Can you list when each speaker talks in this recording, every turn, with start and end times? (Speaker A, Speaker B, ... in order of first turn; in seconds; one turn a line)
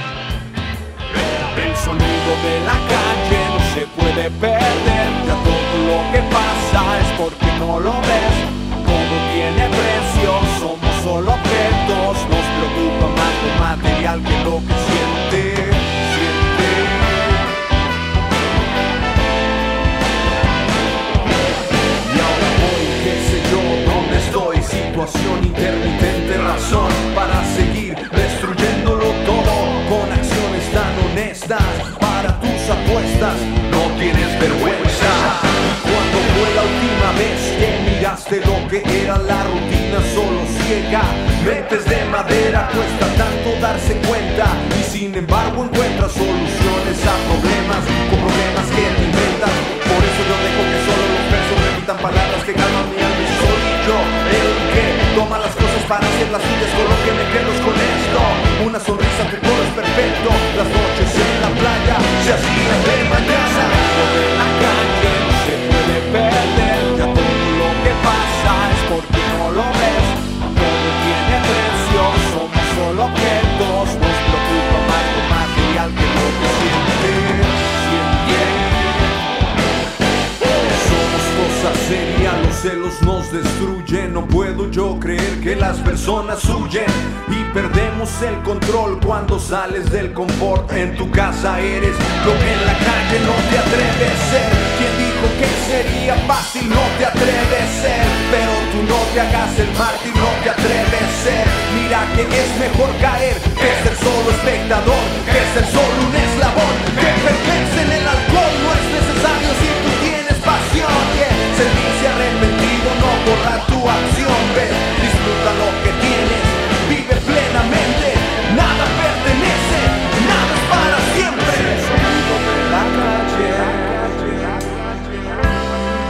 Speaker A: 1.1-17.4
Speaker A: 22.0-79.2
Speaker A: 80.4-125.4